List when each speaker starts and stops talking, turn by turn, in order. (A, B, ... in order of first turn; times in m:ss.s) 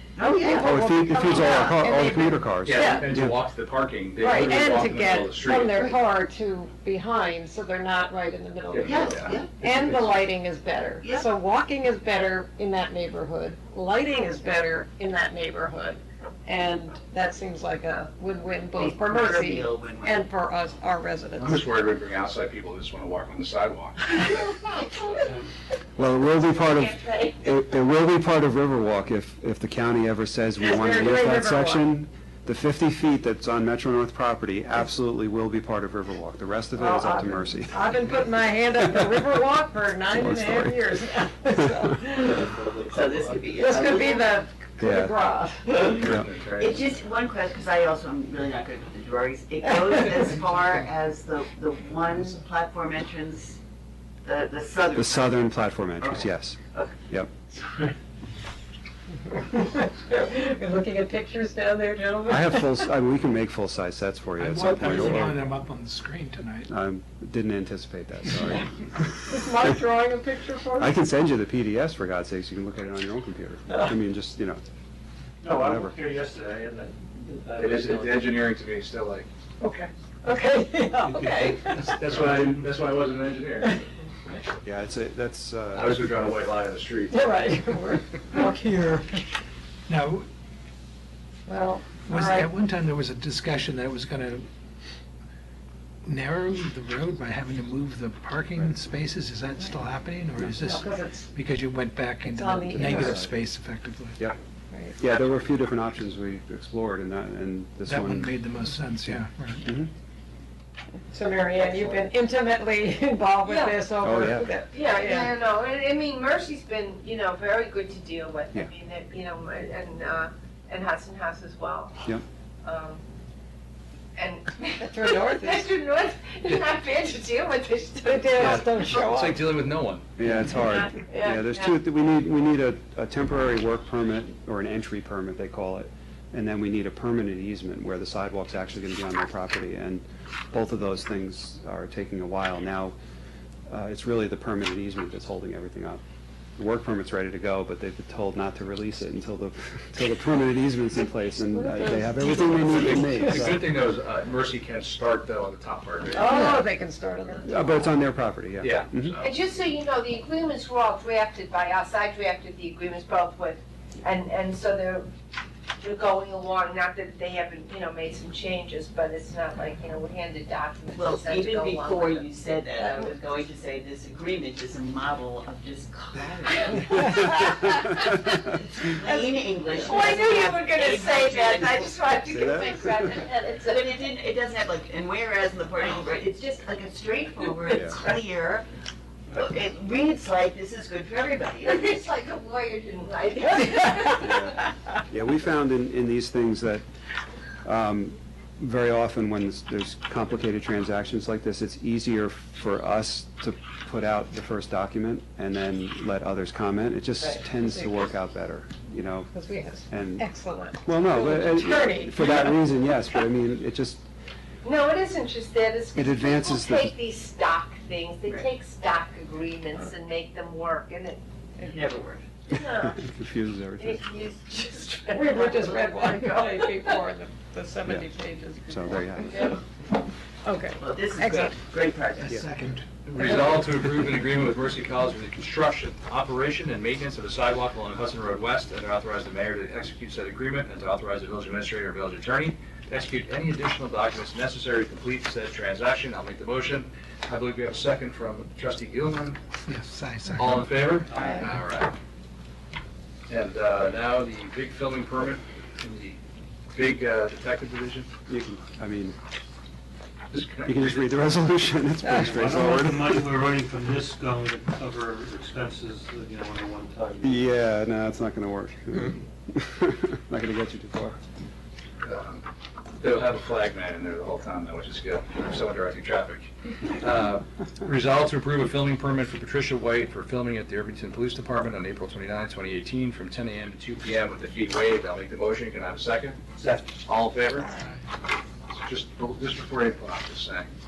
0:00.2-0:00.7 A
0:00.3-0:03.1 B
0:00.6-0:03.4 C
0:01.3-0:01.6 A
0:02.6-0:06.0 D
0:04.2-0:21.6 B
0:08.7-0:09.4 D
0:08.9-0:09.6 A
0:09.6-0:10.0 C
0:18.8-0:20.3 A
0:21.4-0:25.2 D
0:26.0-0:37.9 C
0:26.5-0:27.4 E
0:30.6-0:31.9 B
0:36.8-0:42.6 B
0:38.9-0:39.3 C
0:40.2-0:41.0 C
0:41.5-0:41.9 C
0:42.6-0:43.4 F
0:42.9-0:44.3 A
0:43.6-0:45.9 B
0:44.8-0:45.2 C
0:45.7-0:47.0 D
0:46.6-0:53.6 A
0:54.2-0:57.0 A
0:55.0-0:57.3 C
0:59.3-1:02.9 B
1:02.3-1:05.4 C
1:04.4-1:06.7 G
1:06.7-1:09.9 C
1:09.3-1:11.0 B
1:10.8-1:14.6 C
1:13.7-1:14.0 B
1:15.4-1:18.4 F
1:15.4-1:16.0 C
1:17.6-1:19.3 D
1:19.6-1:21.9 B
1:21.2-1:24.4 D
1:24.6-1:26.1 C
1:25.7-1:27.2 D
1:27.1-1:29.2 B
1:29.9-1:30.3 G
1:31.5-1:32.5 B
1:32.1-1:34.5 G
1:36.1-1:44.2 G
1:40.6-1:41.3 B
1:42.2-1:43.1 B
1:42.7-1:43.4 C
1:45.0-1:48.4 C
1:47.9-1:49.7 G
1:49.1-1:49.9 C
1:51.1-1:55.3 B
1:51.6-1:52.0 E
1:53.4-1:53.8 E
1:54.0-1:54.5 C
1:54.7-2:02.0 E
2:02.6-2:03.0 E
2:04.2-2:08.8 E
2:04.8-2:05.7 B
2:08.0-2:09.4 B
2:08.4-2:10.1 D
2:10.2-2:23.0 C
2:10.5-2:11.8 E
2:23.7-2:26.0 C
2:26.6-2:33.7 C
2:31.5-2:33.4 B
2:32.6-2:36.3 D
2:36.1-2:37.9 B
2:36.2-2:36.6 C
2:37.4-2:39.1 C
2:38.6-2:39.3 D
2:39.2-2:45.1 E
2:45.8-2:52.3 E
2:51.0-2:57.0 A
2:52.8-2:53.1 E
2:56.7-2:58.5 C
2:56.7-3:04.0 E
2:58.6-3:02.0 A
3:02.3-3:03.2 C
3:03.6-3:08.7 A
3:07.7-3:08.0 C
3:09.3-3:11.8 A
3:11.6-3:14.6 E
3:14.2-3:16.9 C
3:17.6-3:29.3 C
3:27.6-3:28.1 B
3:29.3-3:32.6 B
3:29.9-3:30.3 C
3:30.8-3:34.1 C
3:34.6-3:41.2 E
3:36.0-3:37.0 C
3:41.6-3:42.3 A
3:42.5-3:43.0 E
3:42.5-3:44.0 C
3:43.8-3:47.0 E
3:45.1-3:49.5 B
3:48.7-3:49.6 C
3:49.3-3:49.6 E
3:50.4-3:51.6 B
3:50.8-3:52.4 A
3:52.2-3:53.0 G
3:53.1-4:09.4 D
4:09.7-4:11.0 G
4:10.4-4:12.0 D
4:11.1-4:11.6 F
4:13.3-4:16.2 D
4:16.7-4:18.1 D
4:18.3-4:19.2 C
4:20.3-4:21.1 D
4:20.6-4:23.3 C
4:22.0-4:22.5 B
4:22.1-4:27.5 F
4:27.2-4:31.2 C
4:32.0-4:32.5 D
4:33.0-4:47.7 D
4:48.7-4:50.7 D